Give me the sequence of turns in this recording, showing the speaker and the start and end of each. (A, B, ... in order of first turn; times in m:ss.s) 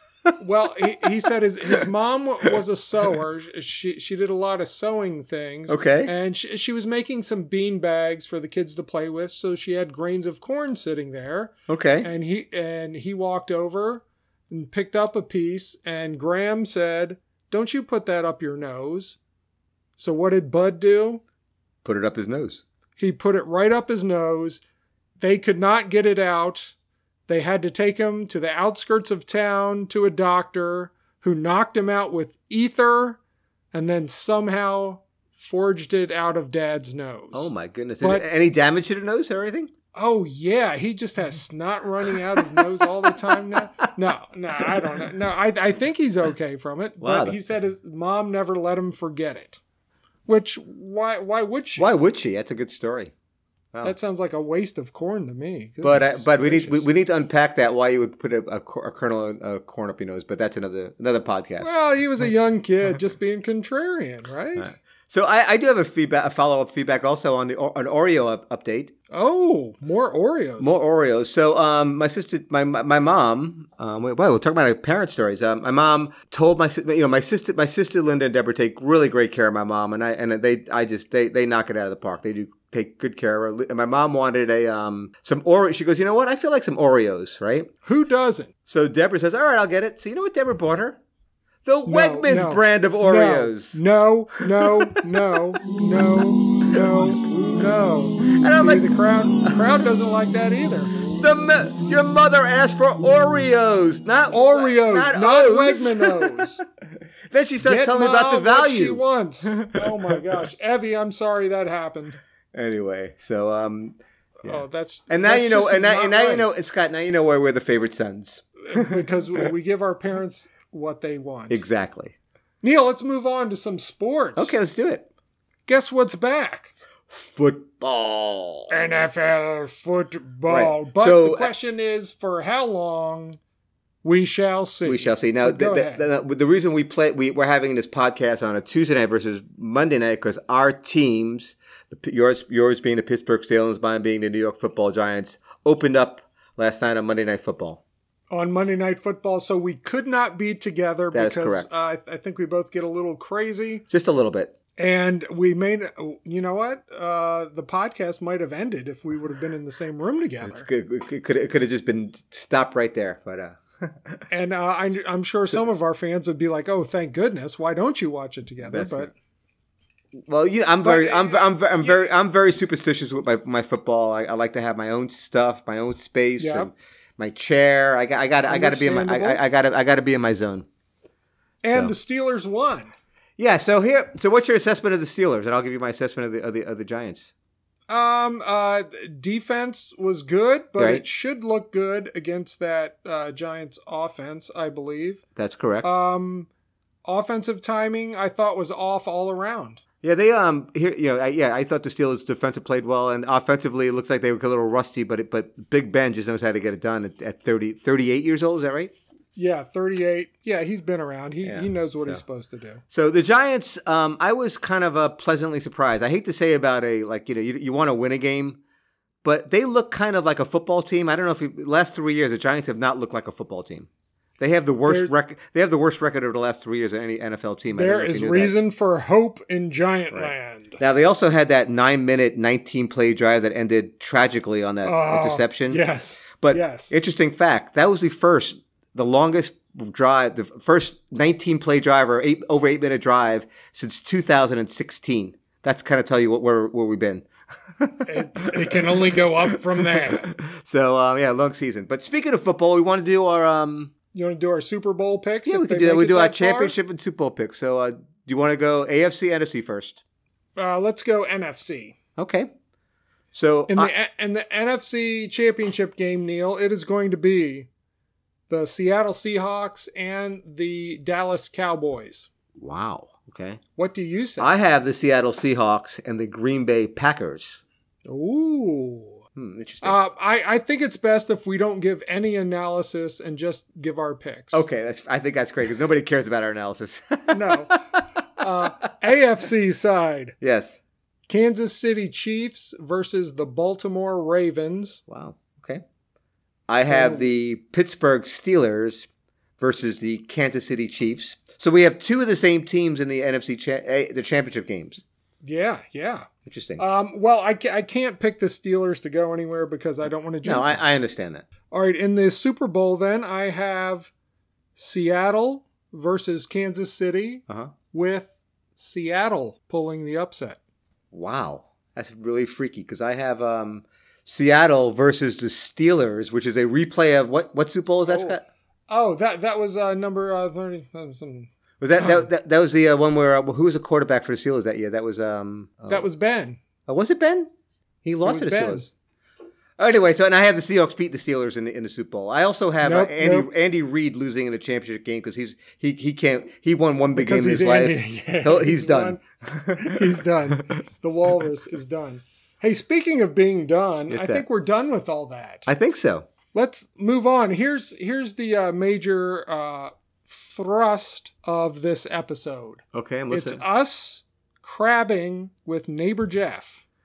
0:00.4-0:19.2 A
0:05.7-0:06.1 B
0:11.7-0:12.1 B
0:20.0-0:21.2 A
0:21.8-0:22.6 B
0:23.0-0:24.6 A
0:25.2-0:26.7 A
0:27.3-0:33.2 A
0:33.7-0:38.2 A
0:37.3-0:39.7 B
0:39.9-0:49.6 A
0:43.1-0:43.8 B
0:47.0-0:47.4 B
0:50.3-0:51.9 A
0:51.8-0:53.1 B
0:53.8-0:56.9 A
0:55.8-1:01.8 B
1:01.6-1:04.7 A
1:04.6-1:08.9 B
1:09.1-1:10.8 A
1:10.6-1:27.7 B
1:27.8-1:28.5 A
1:28.7-1:31.0 B
1:31.6-1:33.8 B
1:31.8-1:40.9 A
1:34.6-1:35.0 B
1:38.3-1:38.8 B
1:41.1-1:46.4 B
1:44.3-1:46.6 A
1:47.3-1:50.2 B
1:47.6-1:52.2 A
1:52.5-1:59.1 B
1:54.4-1:56.5 A
1:58.6-2:01.6 A
2:01.5-2:02.2 B
2:02.6-2:04.6 A
2:04.4-2:05.1 B
2:05.7-2:06.7 A
2:07.1-2:08.8 B
2:08.7-2:13.4 A
2:10.5-2:11.5 B
2:14.0-2:16.0 A
2:14.8-2:27.8 B
2:28.3-2:33.8 A
2:31.1-2:31.7 B
2:33.9-2:34.5 B
2:34.8-2:40.7 A
2:40.4-2:44.2 B
2:44.3-2:49.1 A
2:48.6-2:49.1 B
2:50.2-3:00.6 B
2:50.8-2:51.9 A
2:56.4-2:56.7 A
2:58.5-2:59.4 A
3:01.6-3:02.9 A
3:03.4-3:07.3 B
3:07.9-3:15.2 A
3:10.8-3:11.0 B
3:15.4-3:16.0 B
3:15.8-3:16.5 A
3:17.0-3:19.8 A
3:20.0-3:28.9 B
3:29.3-3:32.8 A
3:31.4-3:32.2 B
3:32.9-3:38.6 B
3:39.2-3:43.9 B
3:44.4-3:48.5 B
3:44.8-3:45.1 A
3:47.7-3:50.8 A
3:50.1-3:55.8 B
3:54.8-3:56.9 A
3:56.4-4:07.2 B
4:07.8-4:13.9 B
4:08.0-4:10.3 A
4:14.1-4:16.8 A
4:15.4-4:20.0 B
4:20.6-4:22.0 A
4:22.2-4:22.5 B
4:23.3-4:23.9 B
4:23.7-4:27.7 A
4:28.5-4:32.3 A
4:32.6-4:33.6 B
4:33.8-4:34.5 A
4:34.4-4:37.6 B
4:38.0-4:39.2 A
4:39.4-4:40.0 B
4:39.8-4:44.6 A
4:44.5-4:48.0 B
4:47.3-4:47.8 A
4:48.4-4:50.4 A
4:50.4-4:50.8 B
4:51.3-4:55.0 A
4:55.1-4:55.8 B
4:56.7-4:59.1 B
4:56.9-4:57.3 A
4:59.6-5:05.0 B
5:05.4-5:10.8 A
5:06.4-5:06.8 B
5:10.4-5:11.4 B
5:11.7-5:14.1 A
5:14.8-5:20.6 A
5:17.5-5:17.7 B
5:21.1-5:28.4 B
5:28.1-5:28.4 A
5:28.9-5:31.5 A
5:31.8-5:36.1 B
5:35.9-5:36.6 A
5:36.9-5:37.5 B
5:38.0-5:38.9 B
5:38.2-5:38.9 A
5:39.8-5:50.6 B
5:42.8-5:43.5 A
5:47.1-5:49.2 A
5:49.7-5:55.7 A
5:54.1-5:54.4 B
5:55.7-5:56.3 B
5:56.5-6:06.8 A
6:02.9-6:03.6 B